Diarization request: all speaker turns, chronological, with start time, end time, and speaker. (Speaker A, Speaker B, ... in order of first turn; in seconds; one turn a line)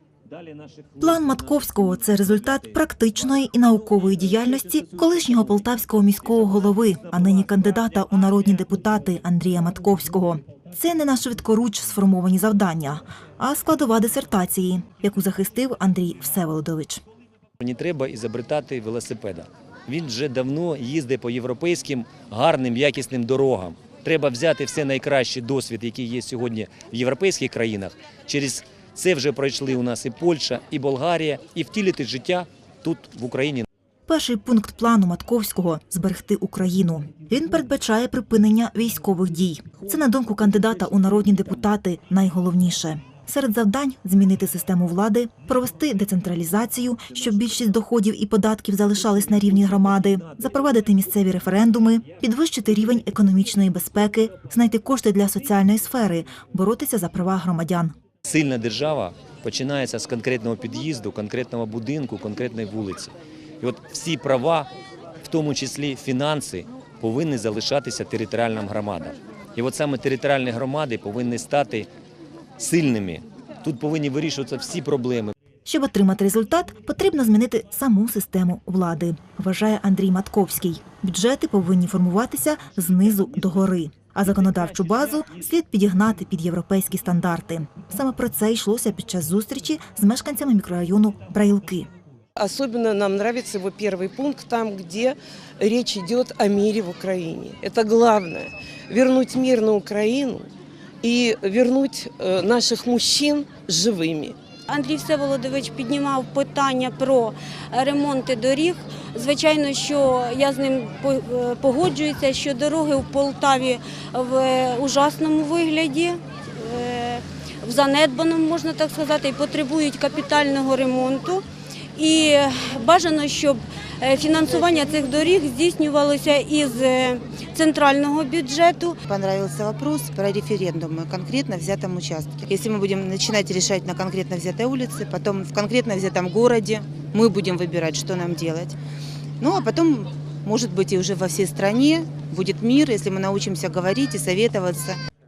Speaker A: 0.3-1.0
Speaker B: 1.0-17.0
Speaker A: 17.6-33.6
Speaker B: 34.1-57.9
Speaker A: 58.2-64.7
Speaker A: 65.2-71.9
Speaker A: 72.6-75.3
Speaker B: 75.6-91.9
Speaker C: 92.3-100.5
Speaker C: 101.0-104.4
Speaker D: 104.7-121.4
Speaker D: 122.0-129.0
Speaker E: 129.1-138.8
Speaker E: 139.4-145.0